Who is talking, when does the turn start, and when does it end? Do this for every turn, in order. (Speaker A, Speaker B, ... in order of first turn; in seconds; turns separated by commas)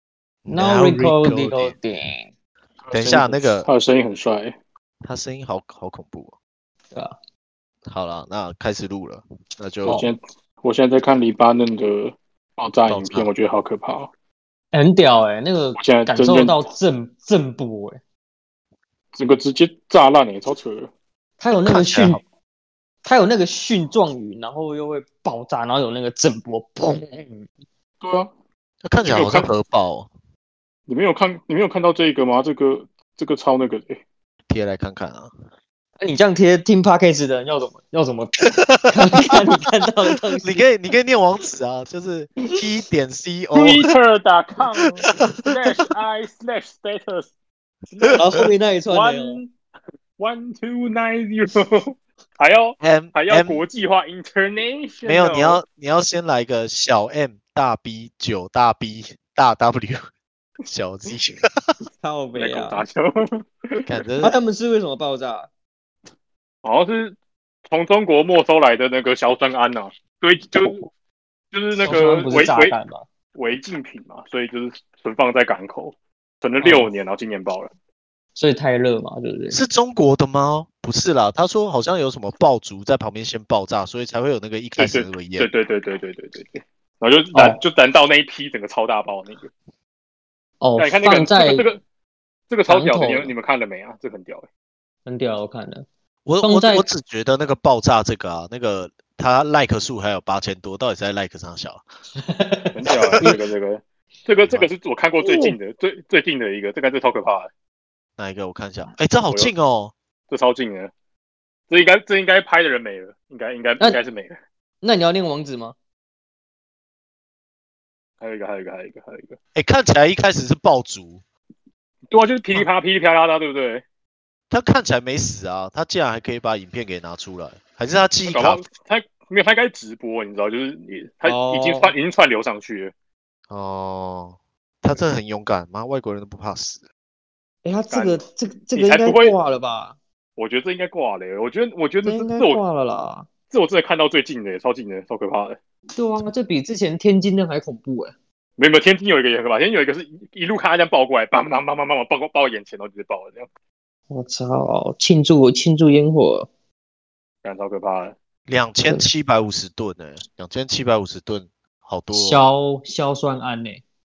Speaker A: 0.4-1.7, Speaker B: 0.5-2.3, Speaker C: 2.9-4.5, Speaker A: 2.9-3.7, Speaker A: 5.0-6.3, Speaker A: 7.8-10.0, Speaker B: 9.8-10.1, Speaker C: 9.9-14.1, Speaker A: 12.8-13.3, Speaker B: 14.7-18.0, Speaker C: 15.8-16.6, Speaker C: 19.1-20.9, Speaker B: 21.4-22.2, Speaker A: 21.6-22.2, Speaker B: 23.0-27.5, Speaker C: 28.0-28.3, Speaker A: 28.8-30.1, Speaker C: 29.0-29.5, Speaker C: 30.9-34.0, Speaker A: 34.5-35.3, Speaker B: 36.0-40.5, Speaker A: 38.6-39.3, Speaker A: 40.4-43.9, Speaker C: 43.5-47.3, Speaker C: 47.9-48.4, Speaker A: 48.0-48.4, Speaker B: 48.1-49.4, Speaker C: 48.9-49.5, Speaker C: 50.2-55.6, Speaker A: 52.8-53.6, Speaker A: 55.0-60.0, Speaker A: 60.7-61.8, Speaker B: 62.0-62.8, Speaker C: 62.4-63.8, Speaker A: 63.8-64.3, Speaker B: 64.2-65.5, Speaker C: 66.6-67.2, Speaker C: 67.7-70.9, Speaker C: 71.5-72.8, Speaker B: 71.8-73.1, Speaker C: 73.3-77.7, Speaker B: 76.6-76.9, Speaker B: 78.3-79.6, Speaker A: 79.5-85.5, Speaker C: 84.8-89.5, Speaker B: 87.3-87.6, Speaker B: 90.6-91.7, Speaker C: 90.8-91.8, Speaker C: 92.5-94.5, Speaker B: 92.7-93.3, Speaker B: 95.0-95.8, Speaker A: 96.2-101.8, Speaker B: 96.4-96.9, Speaker B: 102.2-103.4, Speaker C: 102.7-107.5, Speaker A: 102.9-103.3, Speaker B: 105.2-105.5, Speaker A: 108.2-109.9, Speaker C: 110.3-110.9, Speaker C: 111.7-114.3, Speaker B: 114.8-115.8, Speaker C: 118.2-119.4, Speaker A: 119.5-121.2, Speaker C: 122.1-123.8, Speaker A: 124.5-128.6, Speaker C: 128.2-132.9, Speaker B: 131.2-131.9, Speaker A: 133.5-136.8, Speaker B: 137.6-139.9, Speaker C: 137.9-138.2, Speaker C: 138.7-139.3, Speaker C: 140.4-142.6, Speaker B: 142.0-143.3, Speaker C: 143.5-145.6, Speaker B: 145.9-148.1, Speaker C: 148.6-153.5, Speaker B: 154.1-156.5, Speaker C: 157.4-158.1, Speaker A: 158.5-162.4, Speaker B: 162.1-163.8